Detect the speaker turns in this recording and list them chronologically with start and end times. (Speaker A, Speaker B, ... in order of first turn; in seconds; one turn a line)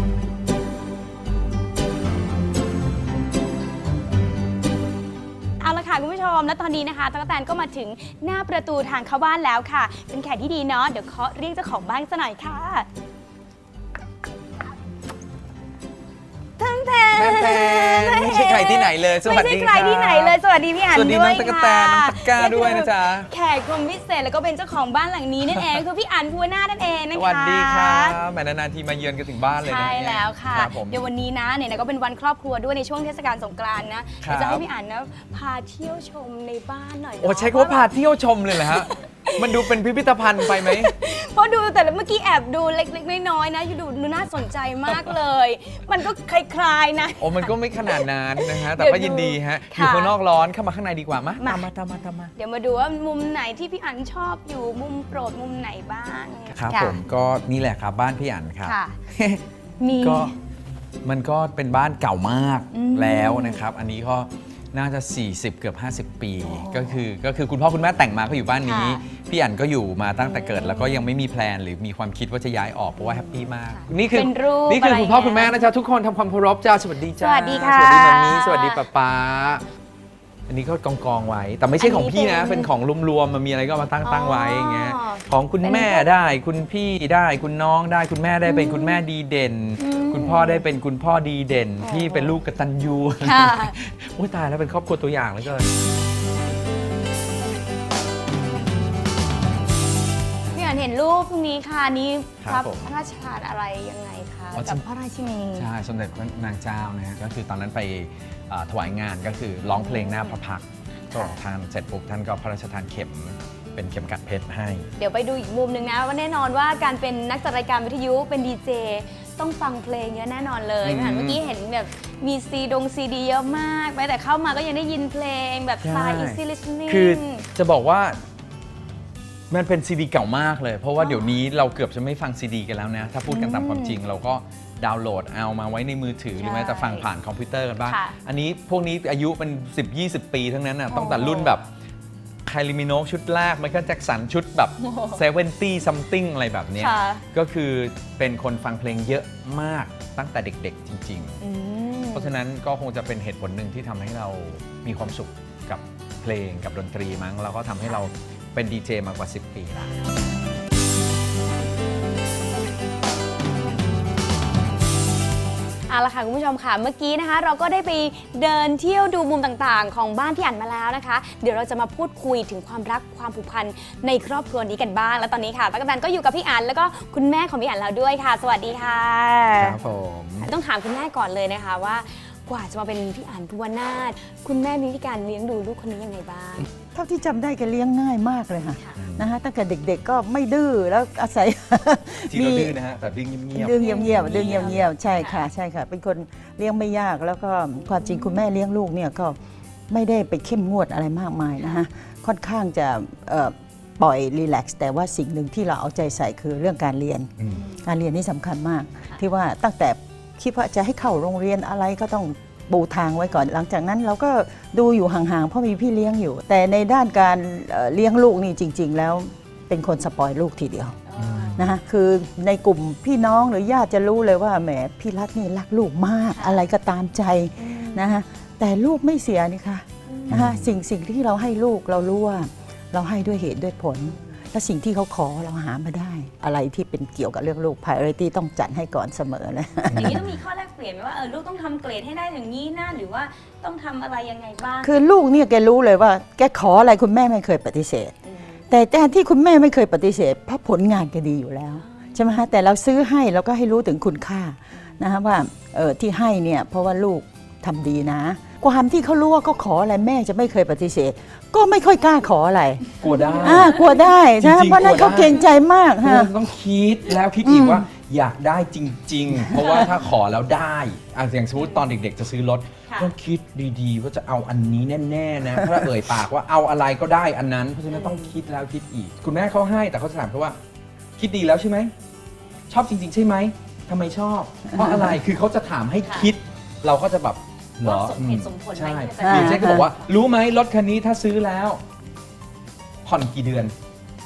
Speaker A: 5.6-12.9
Speaker A: 16.6-28.1
Speaker B: 17.1-20.4
Speaker B: 20.9-23.3
Speaker B: 25.5-25.8
Speaker B: 27.1-31.1
Speaker A: 29.6-37.9
Speaker B: 34.2-34.6
Speaker B: 37.2-40.9
Speaker A: 38.5-39.7
Speaker A: 40.5-50.1
Speaker B: 44.9-45.2
Speaker B: 47.2-52.3
Speaker A: 51.4-51.7
Speaker A: 52.4-57.0
Speaker B: 56.5-59.4
Speaker A: 58.6-59.0
Speaker A: 59.8-60.3
Speaker B: 60.0-60.3
Speaker B: 61.0-79.6
Speaker A: 62.7-63.6
Speaker A: 66.4-67.0
Speaker A: 68.6-69.0
Speaker A: 70.2-71.0
Speaker A: 73.6-75.7
Speaker A: 77.2-78.8
Speaker B: 80.5-95.7
Speaker A: 81.8-82.7
Speaker A: 84.0-86.1
Speaker A: 88.5-89.0
Speaker A: 89.8-90.6
Speaker A: 91.8-92.3
Speaker A: 93.2-93.7
Speaker B: 100.5-100.8
Speaker A: 100.5-105.7
Speaker B: 102.4-102.9
Speaker B: 104.5-104.8
Speaker B: 105.5-114.9
Speaker A: 109.7-110.3
Speaker A: 111.1-111.4
Speaker A: 115.0-127.5
Speaker B: 120.8-121.4
Speaker B: 125.8-128.2
Speaker B: 129.5-141.7
Speaker A: 131.0-131.3
Speaker A: 133.3-134.0
Speaker A: 136.4-137.1
Speaker A: 137.8-138.2
Speaker A: 140.9-141.6
Speaker B: 142.4-151.4
Speaker A: 144.8-145.2
Speaker A: 146.8-147.2
Speaker A: 151.4-152.3
Speaker B: 152.1-160.0
Speaker A: 165.9-179.8
Speaker B: 179.6-180.5
Speaker A: 180.4-186.7
Speaker C: 186.9-192.8
Speaker B: 189.0-189.2
Speaker B: 192.3-194.8
Speaker C: 193.5-199.3
Speaker A: 193.8-195.5
Speaker A: 197.8-198.3
Speaker C: 199.9-220.9
Speaker B: 207.4-207.6
Speaker A: 207.5-207.9
Speaker A: 221.1-221.6
Speaker B: 221.2-221.7
Speaker C: 221.6-240.1
Speaker A: 226.3-226.6
Speaker A: 227.6-228.2
Speaker A: 230.1-230.5
Speaker B: 230.3-230.7
Speaker A: 239.8-244.9
Speaker B: 239.9-240.2
Speaker C: 244.8-248.1
Speaker A: 248.2-248.6
Speaker C: 248.7-262.9
Speaker A: 251.8-252.2
Speaker B: 263.0-263.8
Speaker A: 263.0-264.0
Speaker C: 263.4-266.3
Speaker B: 264.4-265.4
Speaker B: 266.0-280.6
Speaker C: 267.4-267.9
Speaker A: 271.6-271.8
Speaker A: 272.9-273.1
Speaker A: 277.9-278.3
Speaker B: 281.2-281.9
Speaker B: 282.7-291.8
Speaker A: 286.0-286.3
Speaker A: 287.8-290.2
Speaker C: 289.2-289.8
Speaker B: 293.0-293.7